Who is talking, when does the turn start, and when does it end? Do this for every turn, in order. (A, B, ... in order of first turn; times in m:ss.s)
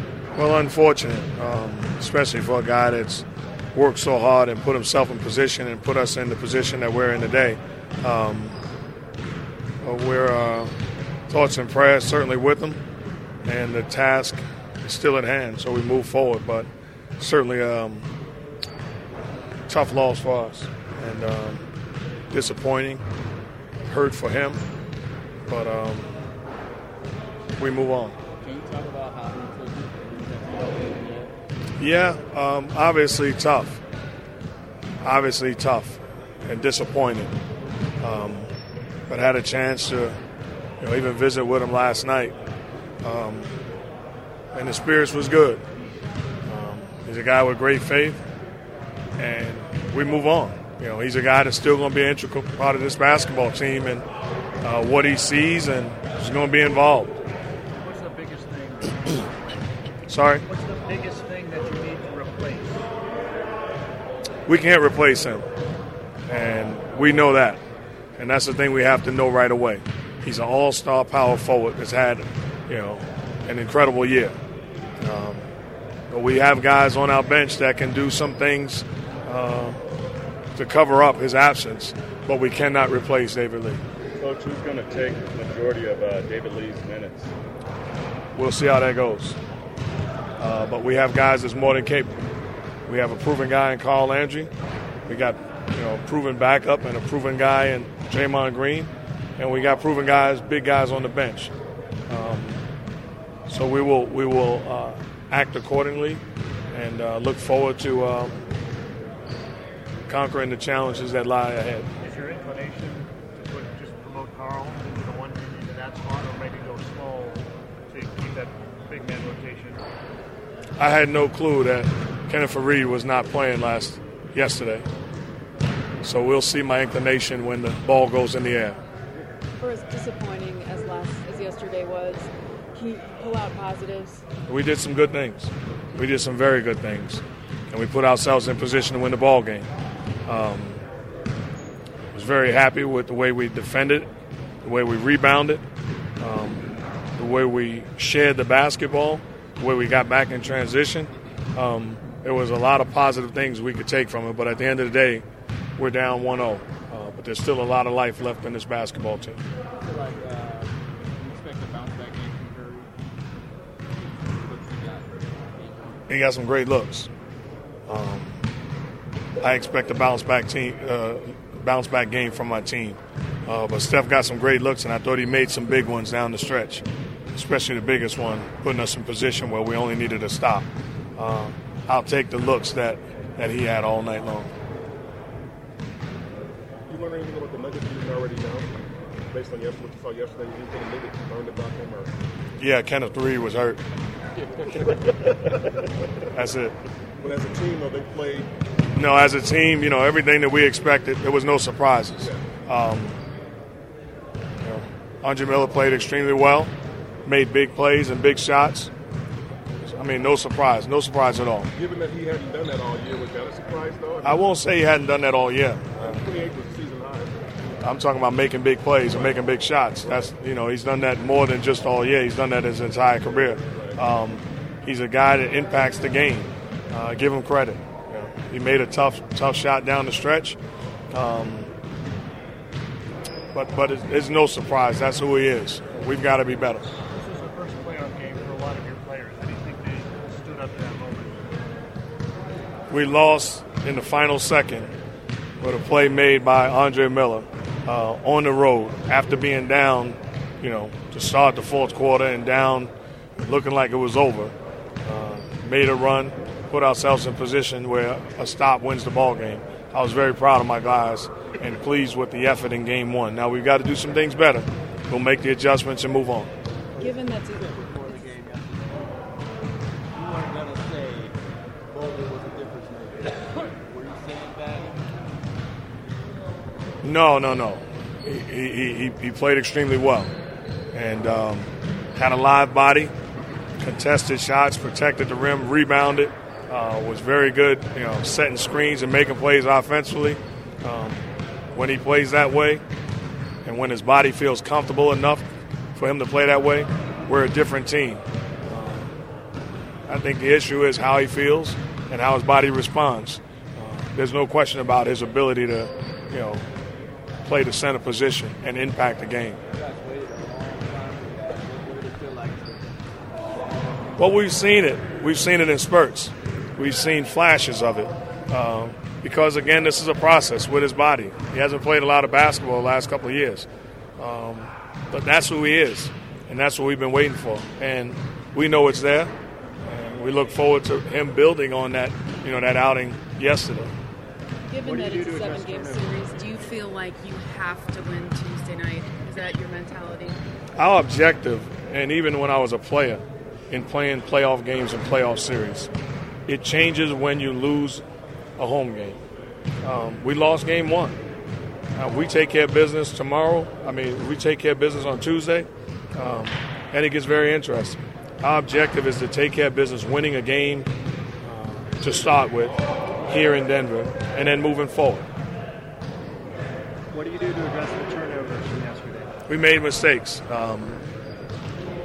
0:00.3-0:08.6 A
0:09.8-0:10.7 A
0:11.3-0:12.8 A
0:13.4-0:18.1 A
0:19.7-0:21.6 A
0:22.3-0:23.0 A
0:23.8-0:24.6 A
0:25.5-0:26.1 A
0:27.6-0:28.2 A
0:28.4-0:31.3 B
0:31.8-0:33.8 A
0:35.0-0:37.3 A
0:38.0-0:38.5 A
0:39.1-0:40.2 A
0:40.8-0:42.3 A
0:43.0-0:43.5 A
0:44.5-0:45.6 A
0:46.5-0:48.2 A
0:49.2-0:54.0 A
0:54.6-0:57.2 A
0:57.8-0:59.3 C
1:00.1-1:00.4 A
1:00.5-1:02.9 C
1:04.4-1:05.4 A
1:06.3-1:07.6 A
1:08.2-1:14.3 A
1:15.0-1:15.4 A
1:16.1-1:19.8 A
1:20.5-1:23.8 A
1:24.2-1:27.3 D
1:28.3-1:29.4 A
1:30.4-1:32.2 A
1:32.9-1:34.5 A
1:35.0-1:41.5 A
1:42.1-1:42.6 A
1:43.5-1:48.4 A
1:50.1-1:51.9 A
1:52.0-1:59.8 C
2:00.8-2:04.8 A
2:06.0-2:08.8 A
2:09.6-2:14.2 E
2:14.5-2:19.7 A
2:20.2-2:20.8 A
2:22.1-2:24.1 A
2:24.6-2:25.6 A
2:26.2-2:35.2 A
2:35.8-2:39.4 A
2:39.8-2:42.9 B
2:44.0-2:46.0 B
2:46.1-2:47.1 A
2:47.9-2:48.4 A
2:49.4-3:04.5 A
3:06.9-3:08.7 F
3:09.3-3:12.1 F
3:12.6-3:13.8 A
3:16.3-3:16.7 A
3:17.2-3:18.5 F
3:18.9-3:23.2 A
3:24.6-3:26.7 A
3:27.2-3:28.9 A
3:29.9-3:31.7 A
3:31.7-3:34.4 F
3:34.2-3:36.2 A
3:36.0-3:37.4 F
3:37.8-3:50.6 A
3:43.7-3:44.0 F
3:51.1-3:51.7 A
3:53.5-3:56.9 A
3:57.1-4:01.4 C
4:02.9-4:04.9 A
4:05.6-4:26.5 A
4:26.9-4:29.2 B
4:27.0-4:28.2 E
4:30.1-4:31.3 B
4:31.9-4:35.0 B
4:37.0-4:40.3 A
4:40.9-4:43.1 A
4:43.8-4:52.8 A
4:53.6-4:59.1 A
5:00.1-5:06.6 A
5:07.4-5:09.6 A
5:09.7-5:12.9 B
5:14.2-5:23.7 A
5:24.2-5:29.3 A
5:29.9-5:33.9 A
5:34.6-5:40.4 E
5:34.8-5:36.0 B
5:40.8-5:45.9 A
5:46.5-5:48.0 A
5:48.6-5:49.2 A
5:49.8-5:51.2 A
5:52.0-6:00.9 A
6:01.4-6:05.3 A
6:07.1-6:09.3 C
6:09.5-6:11.0 A